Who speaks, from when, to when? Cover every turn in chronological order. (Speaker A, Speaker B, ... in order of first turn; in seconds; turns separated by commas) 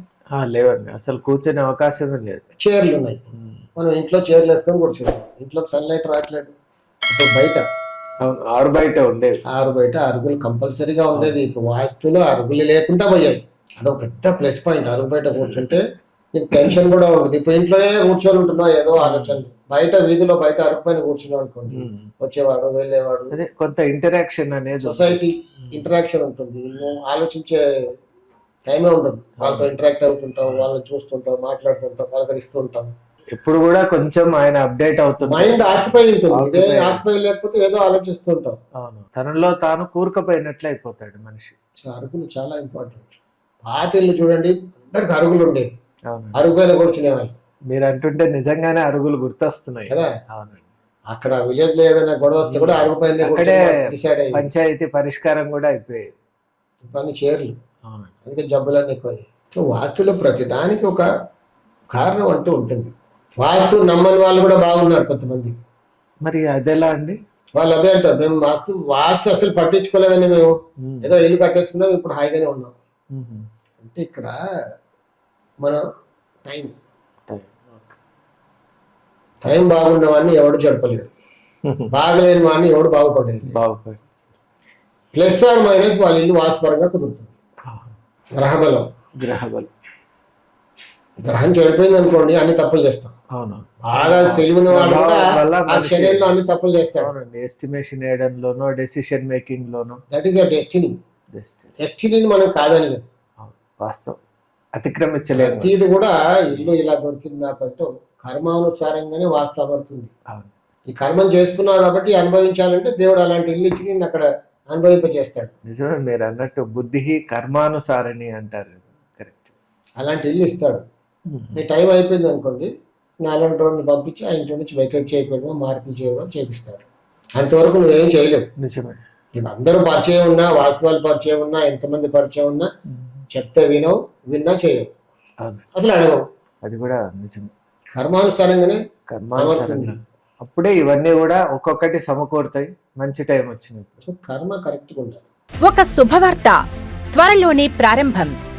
Speaker A: 0.3-2.4, Speaker B: 2.6-3.2, Speaker A: 3.3-3.6, Speaker B: 3.8-6.5, Speaker B: 7.1-7.6, Speaker A: 8.2-9.4, Speaker B: 9.5-23.4, Speaker A: 15.4-15.8, Speaker A: 19.0-19.4, Speaker A: 21.7-22.1, Speaker A: 23.3-25.8, Speaker B: 24.8-27.9, Speaker B: 28.7-32.9, Speaker A: 29.4-29.8, Speaker A: 33.3-37.0, Speaker B: 35.2-38.6, Speaker A: 38.8-41.5, Speaker B: 41.8-45.7, Speaker A: 46.1-46.4, Speaker B: 46.4-47.3, Speaker A: 47.7-50.6, Speaker B: 51.1-54.5, Speaker A: 52.4-53.8, Speaker A: 54.3-56.1, Speaker B: 56.8-57.5, Speaker A: 57.9-58.1, Speaker B: 58.2-61.1, Speaker B: 61.9-65.5, Speaker A: 66.2-67.2, Speaker B: 67.6-72.8, Speaker A: 70.8-71.1, Speaker A: 73.1-73.5, Speaker B: 73.8-74.4, Speaker B: 76.5-76.8, Speaker A: 77.3-78.0, Speaker B: 79.4-81.1, Speaker A: 81.7-81.9, Speaker B: 81.9-83.5, Speaker A: 83.5-84.3, Speaker B: 85.1-87.3, Speaker A: 87.7-87.9, Speaker B: 88.4-88.9, Speaker A: 89.2-89.7, Speaker B: 91.2-93.1, Speaker A: 93.3-96.4, Speaker B: 93.9-97.1, Speaker A: 97.0-100.0, Speaker B: 100.1-100.9, Speaker A: 101.3-101.7, Speaker B: 101.8-103.0, Speaker A: 103.4-104.2, Speaker A: 104.8-105.7, Speaker B: 105.4-110.1, Speaker B: 110.9-115.5, Speaker A: 115.7-119.5, Speaker B: 120.0-120.8, Speaker A: 121.3-121.6, Speaker B: 121.5-122.7, Speaker B: 123.2-126.8, Speaker B: 127.4-128.5, Speaker A: 128.6-129.0, Speaker B: 129.3-132.7, Speaker A: 132.9-133.2, Speaker B: 133.3-134.9, Speaker B: 135.8-136.2, Speaker A: 136.6-137.5, Speaker B: 138.0-138.8, Speaker A: 139.1-144.0, Speaker B: 139.4-139.9, Speaker B: 144.0-145.2, Speaker C: 145.6-146.6, Speaker C: 147.1-148.3